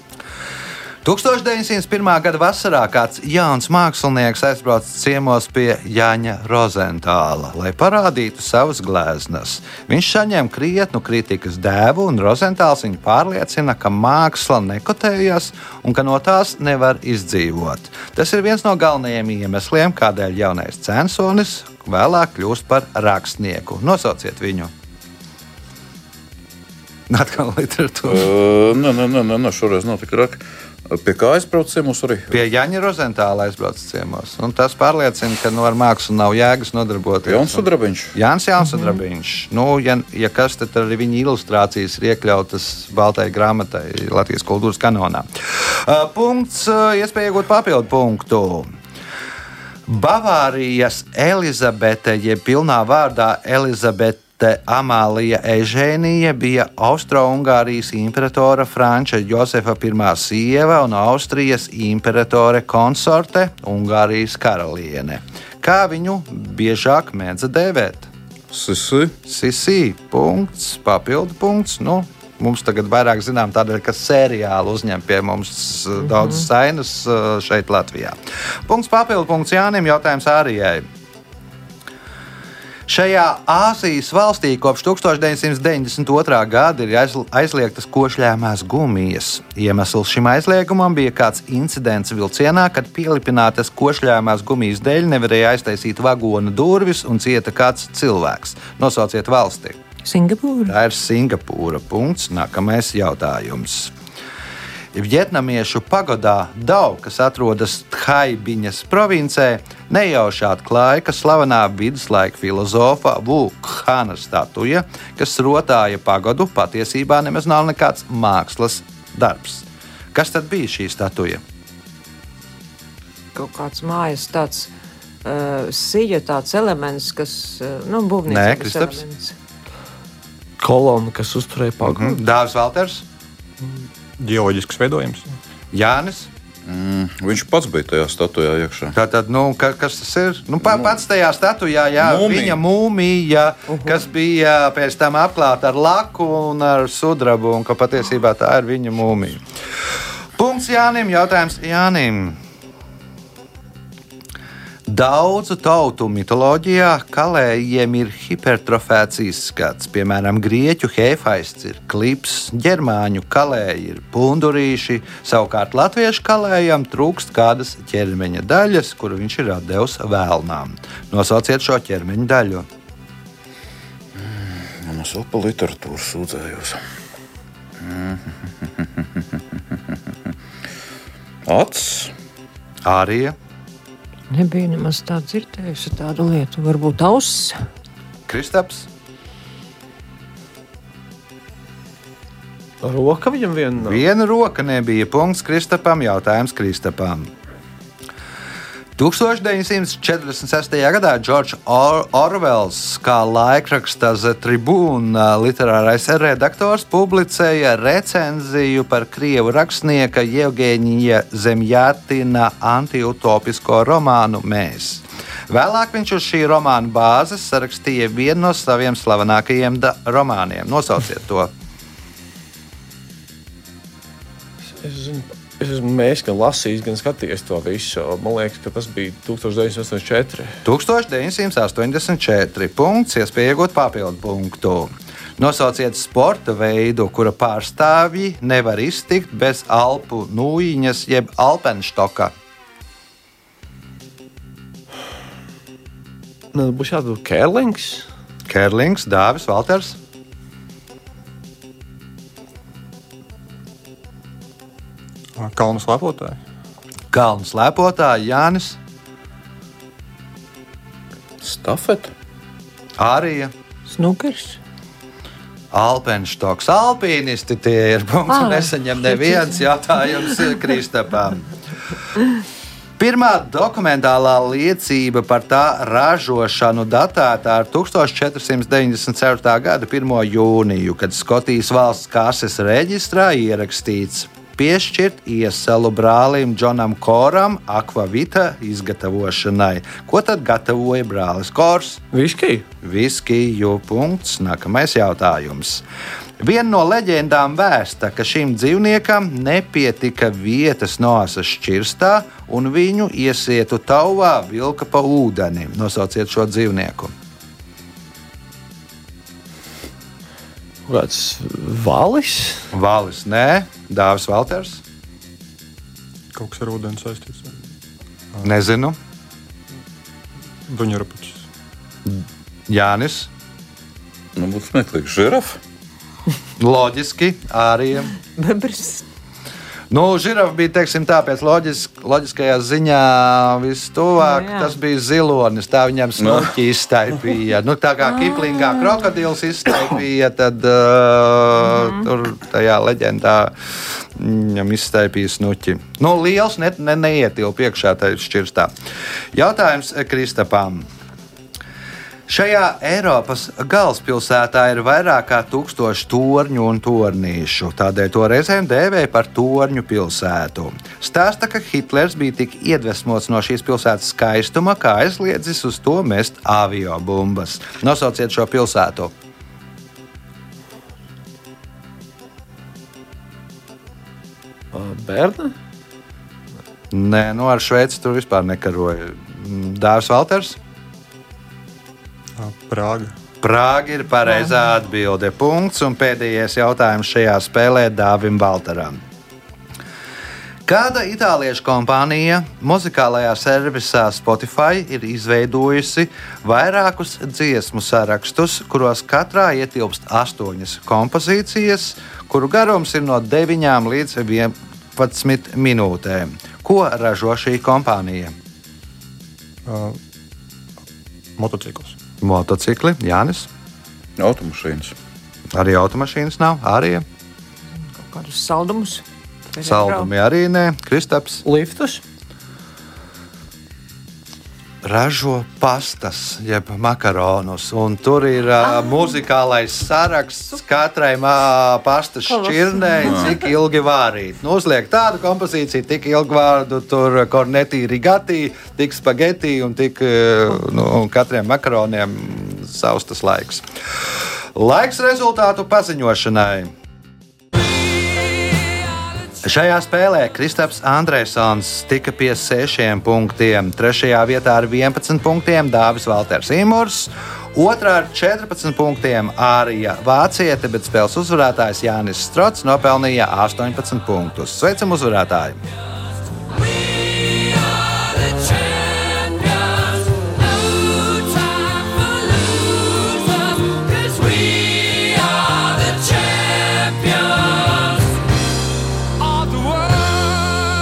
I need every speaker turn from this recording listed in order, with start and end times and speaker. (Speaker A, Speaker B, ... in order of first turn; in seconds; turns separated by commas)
Speaker A: 1.0-24.7, Speaker A: 27.1-28.3, Speaker B: 28.1-32.4, Speaker A: 32.3-48.7, Speaker B: 37.2-38.1, Speaker A: 49.9-68.1, Speaker B: 68.5-69.1, Speaker A: 69.2-80.8, Speaker A: 82.9-99.8, Speaker C: 100.0-100.7, Speaker A: 100.7-103.9, Speaker A: 104.9-121.4, Speaker C: 123.3-124.7, Speaker C: 125.2-129.3, Speaker A: 128.3-129.0, Speaker D: 130.6-132.2, Speaker E: 131.8-132.2, Speaker A: 131.9-133.0, Speaker E: 133.6-135.4, Speaker A: 135.7-136.3, Speaker B: 136.7-138.9, Speaker A: 138.9-149.4, Speaker B: 142.0-142.6, Speaker A: 150.3-152.4, Speaker A: 154.9-172.7, Speaker B: 174.2-176.8, Speaker B: 177.8-180.0, Speaker B: 181.4-182.1, Speaker A: 182.8-183.3, Speaker C: 184.3-187.6, Speaker A: 188.3-188.9, Speaker D: 192.8-194.1, Speaker A: 193.8-197.3, Speaker A: 198.9-221.5, Speaker D: 224.8-230.6, Speaker A: 230.7-242.3, Speaker D: 246.5-248.1, Speaker A: 248.4-249.9, Speaker E: 255.3-256.4, Speaker A: 257.1-258.8, Speaker B: 261.4-262.1, Speaker A: 263.0-263.5, Speaker C: 263.9-264.6, Speaker A: 265.7-271.5, Speaker C: 268.3-269.6, Speaker A: 273.0-292.0, Speaker D: 292.1-292.6, Speaker A: 292.8-295.8, Speaker A: 296.4-307.1, Speaker D: 310.9-312.7, Speaker A: 312.7-314.8, Speaker E: 316.3-317.6, Speaker A: 318.4-319.0, Speaker E: 320.6-321.4, Speaker A: 322.0-323.3, Speaker B: 324.3-325.6, Speaker A: 326.6-328.1, Speaker C: 328.2-329.1, Speaker A: 329.9-343.5, Speaker C: 334.2-334.7, Speaker B: 336.2-336.5, Speaker C: 338.4-338.8, Speaker A: 344.1-348.7, Speaker A: 349.3-350.9, Speaker A: 352.3-369.1, Speaker D: 374.7-375.5, Speaker A: 376.9-380.6, Speaker E: 382.4-383.1, Speaker A: 383.4-389.0, Speaker A: 390.6-408.3, Speaker E: 409.6-410.0, Speaker E: 411.4-411.9, Speaker A: 412.2-413.5, Speaker B: 414.2-414.9, Speaker A: 415.5-417.1, Speaker C: 418.0-420.1, Speaker A: 419.6-421.4, Speaker D: 421.4-422.0, Speaker A: 424.8-443.6, Speaker C: 432.3-433.5, Speaker A: 444.5-446.7, Speaker A: 449.4-465.6, Speaker D: 474.7-475.2